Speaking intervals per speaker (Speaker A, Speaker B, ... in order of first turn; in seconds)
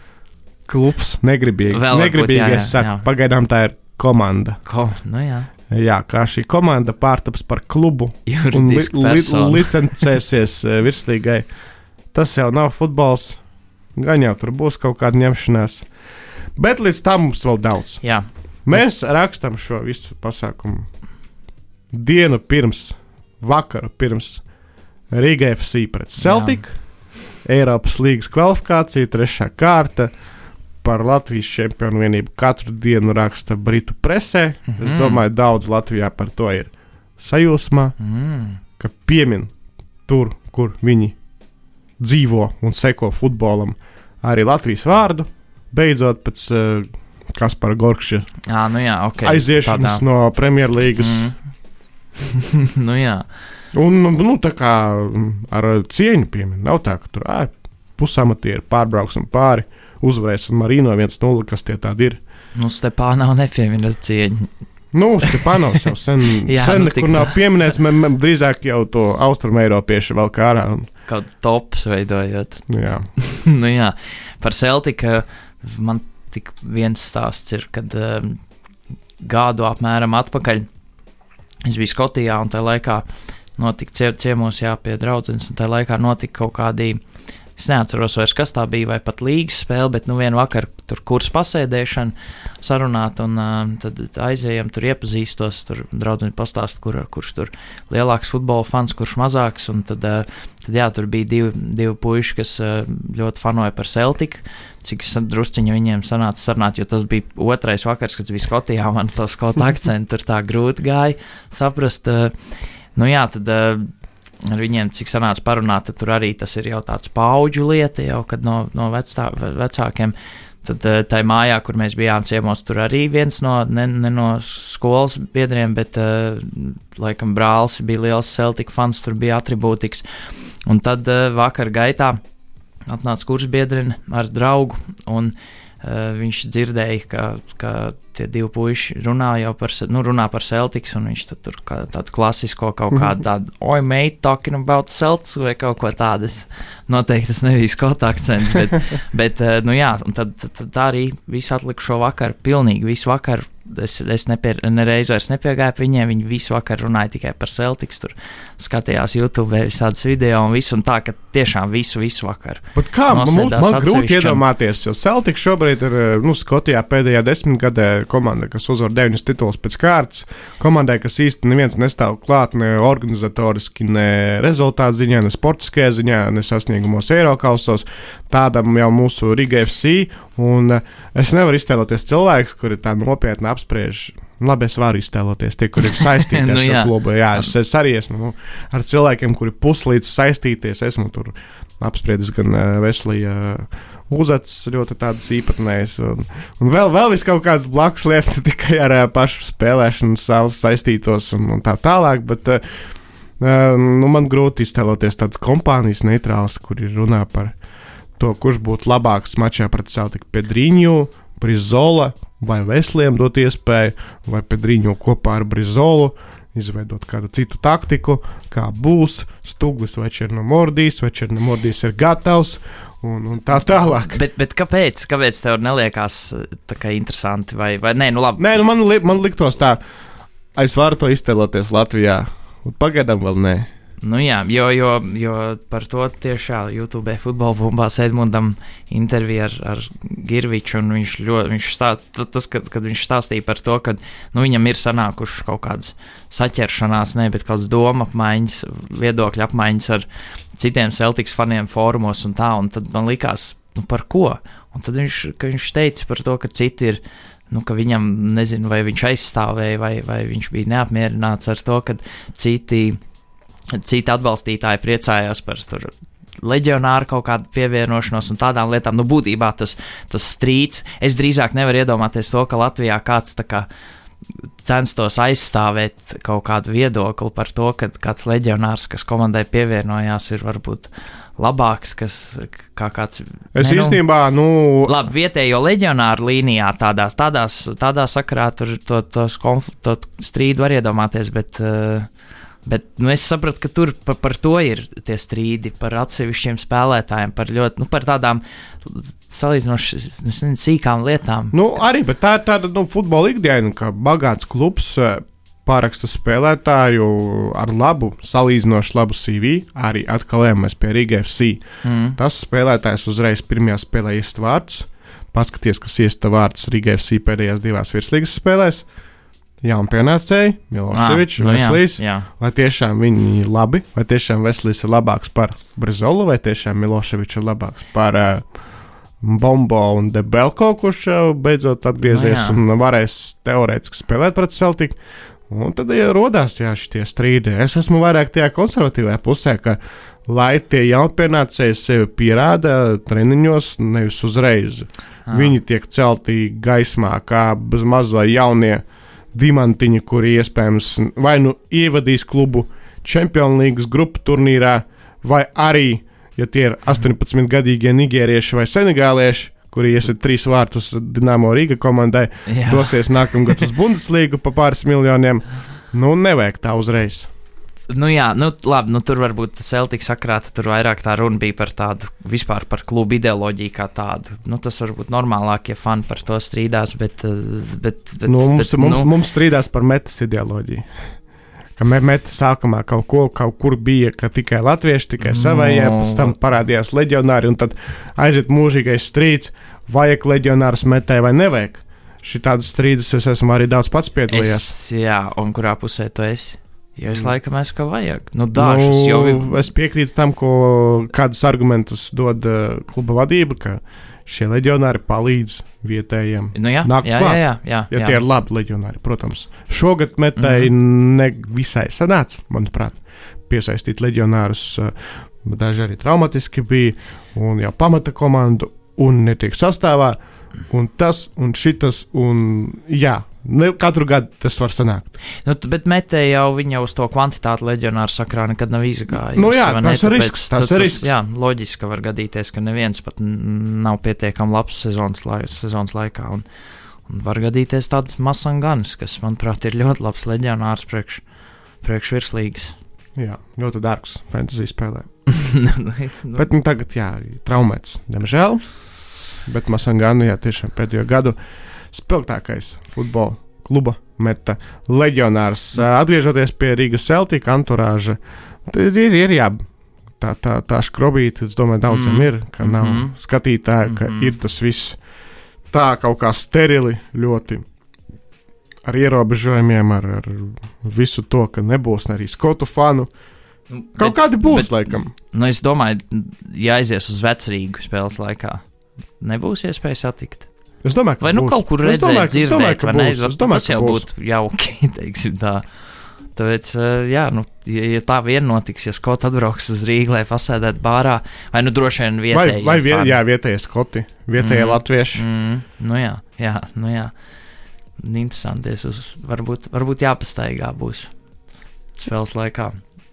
Speaker A: 0.7-4.6, 5.7-11.4, 12.1-13.4, 13.9-15.9, 16.6-18.0, 18.6-20.9, 21.9-24.4, 25.1-26.7, 27.4-30.1, 30.8-38.0, 38.8-39.5, 40.1-41.1, 42.0-48.3, 49.2-51.2, 53.7-62.2, 64.9-70.9, 72.7-73.1, 162.7-202.6, 203.4-207.5, 208.2-224.2, 228.4-229.8, 230.5-233.7, 283.5-284.9, 301.5-311.6, 312.1-318.9, 319.6-328.5, 329.2-335.0, 335.5-367.3, 378.2-381.1, 381.8-394.7, 398.5-420.2, 420.7-425.1, 429.3-431.1, 443.1-445.1, 446.3-448.6, 449.4-451.4, 451.9-459.6, 460.2-465.0, 465.7-467.6, 468.8-473.1, 473.9-475.1, 480.8-484.1, 492.3-495.2
Speaker B: 1.7-3.1, 4.6-5.5, 8.2-10.1, 26.2-26.6, 34.7-35.2, 38.0-38.6, 48.5-50.0, 51.0-51.4, 52.3-53.3, 62.5-64.5, 65.2-67.4, 71.1-78.4, 79.2-80.7, 81.6-83.0, 83.6-87.0, 87.5-112.3, 112.9-113.9, 114.4-130.0, 130.7-132.2, 132.9-164.4, 185.8-187.4, 224.1-228.4, 234.0-263.0, 263.7-273.6, 274.6-284.0, 284.8-292.1, 292.6-301.6, 311.8-312.2, 320.9-322.3, 332.1-332.6, 345.3-345.5, 362.5-363.7, 367.9-379.1, 385.2-386.3, 394.3-399.5, 406.5-408.2, 410.4-410.7, 425.4-436.4, 437.1-441.2, 441.8-442.8, 445.3-446.5, 461.9-463.1, 463.8-464.3, 473.7-478.6, 479.2-480.5, 481.2-485.6, 486.3-493.2, 494.4-497.1, 498.0-501.1, 501.9-502.8